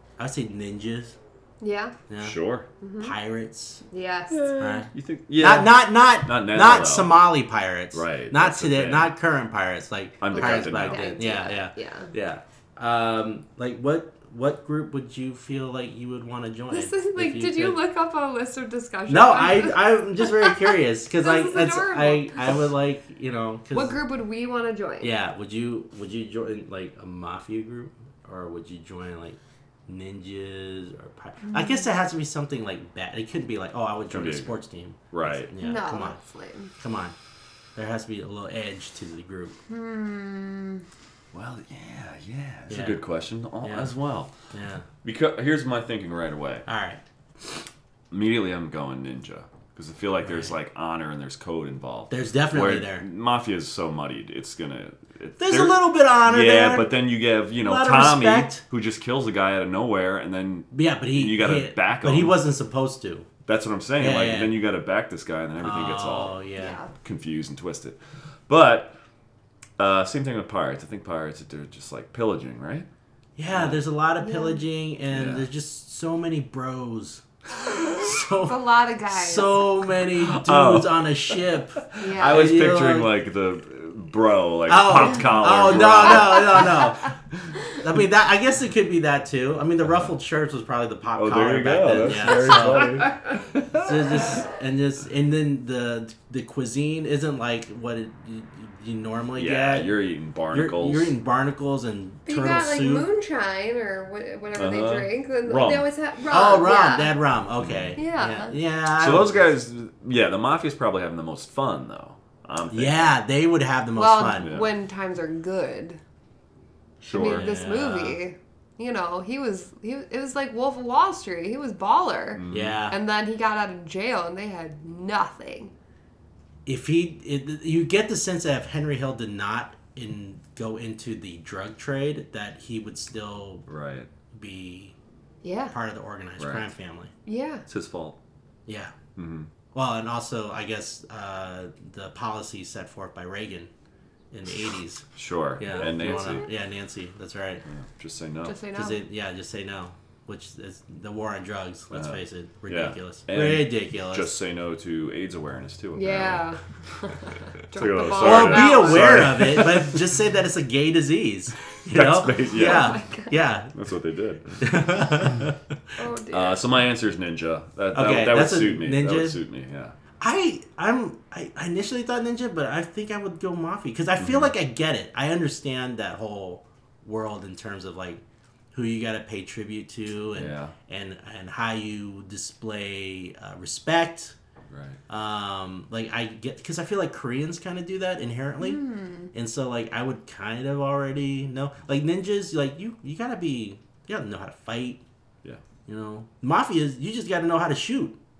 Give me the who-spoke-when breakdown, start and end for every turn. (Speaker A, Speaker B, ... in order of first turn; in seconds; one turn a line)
Speaker A: 0.2-1.2
Speaker B: 1.6-1.9
Speaker A: 2.1-2.4
Speaker C: 2.2-2.7
Speaker B: 2.8-3.1
Speaker A: 3.0-3.8
Speaker B: 3.9-4.6
Speaker C: 4.3-7.3
Speaker A: 4.6-17.8
Speaker C: 7.9-9.1
Speaker C: 10.2-11.1
Speaker B: 10.3-12.1
Speaker B: 16.7-22.6
Speaker A: 19.1-24.0
Speaker B: 23.7-25.1
Speaker A: 25.0-36.2
Speaker B: 31.4-31.9
Speaker C: 34.1-34.5
Speaker C: 35.1-35.5
Speaker B: 35.6-36.7
Speaker A: 36.8-37.1
Speaker A: 37.8-39.6
Speaker B: 39.7-40.9
Speaker C: 41.3-44.3
Speaker A: 42.7-43.0
Speaker A: 43.6-43.9
Speaker A: 44.5-44.9
Speaker C: 45.0-46.7
Speaker A: 46.7-47.0
Speaker C: 48.1-62.4
Speaker A: 50.2-50.5
Speaker A: 52.1-53.1
Speaker A: 55.4-56.9
Speaker A: 57.6-58.6
Speaker A: 60.7-63.3
Speaker C: 63.5-66.4
Speaker A: 64.0-64.5
Speaker A: 65.6-66.8
Speaker B: 66.6-66.9
Speaker C: 67.0-68.0
Speaker C: 68.5-69.0
Speaker C: 69.8-72.9
Speaker A: 73.4-77.2
Speaker C: 73.5-73.8
Speaker B: 74.2-74.6
Speaker C: 75.1-75.5
Speaker A: 77.8-83.1
Speaker B: 78.3-79.6
Speaker C: 80.0-87.5
Speaker B: 82.0-82.4
Speaker A: 84.7-87.1
Speaker B: 86.0-86.5
Speaker A: 87.8-93.0
Speaker C: 91.1-94.4
Speaker A: 93.7-100.0
Speaker C: 99.4-101.2
Speaker A: 100.5-103.1
Speaker B: 102.3-107.1
Speaker C: 104.5-105.9
Speaker A: 106.3-109.5
Speaker C: 107.6-108.0
Speaker B: 108.0-108.6
Speaker C: 108.9-113.2
Speaker A: 112.7-114.5
Speaker B: 114.0-116.0
Speaker C: 114.3-114.7
Speaker C: 117.0-117.5
Speaker B: 117.1-125.7
Speaker A: 117.2-118.2
Speaker C: 122.3-122.8
Speaker A: 122.5-123.0
Speaker A: 126.7-133.7
Speaker C: 133.7-134.1
Speaker A: 134.3-135.0
Speaker B: 135.4-135.7
Speaker A: 135.7-137.1
Speaker C: 136.4-136.7
Speaker B: 137.3-137.7
Speaker C: 137.7-138.2
Speaker A: 138.7-138.9
Speaker C: 139.2-139.5
Speaker A: 139.7-143.7
Speaker A: 144.3-145.1
Speaker C: 145.2-146.5
Speaker A: 145.6-147.6
Speaker B: 145.6-146.5
Speaker C: 147.7-148.6
Speaker B: 148.4-149.0
Speaker A: 148.7-154.4
Speaker C: 151.9-156.6
Speaker B: 156.0-159.3
Speaker C: 157.7-160.1
Speaker A: 158.1-163.7
Speaker C: 161.9-163.0
Speaker B: 162.5-163.4
Speaker C: 163.7-165.3
Speaker A: 164.6-165.6
Speaker B: 166.0-166.6
Speaker C: 166.3-169.9
Speaker A: 167.9-169.4
Speaker A: 170.2-178.2
Speaker C: 174.2-174.5
Speaker A: 178.7-184.3
Speaker C: 180.3-180.7
Speaker C: 184.7-185.0
Speaker A: 185.1-195.0
Speaker B: 188.6-189.3
Speaker A: 195.8-198.2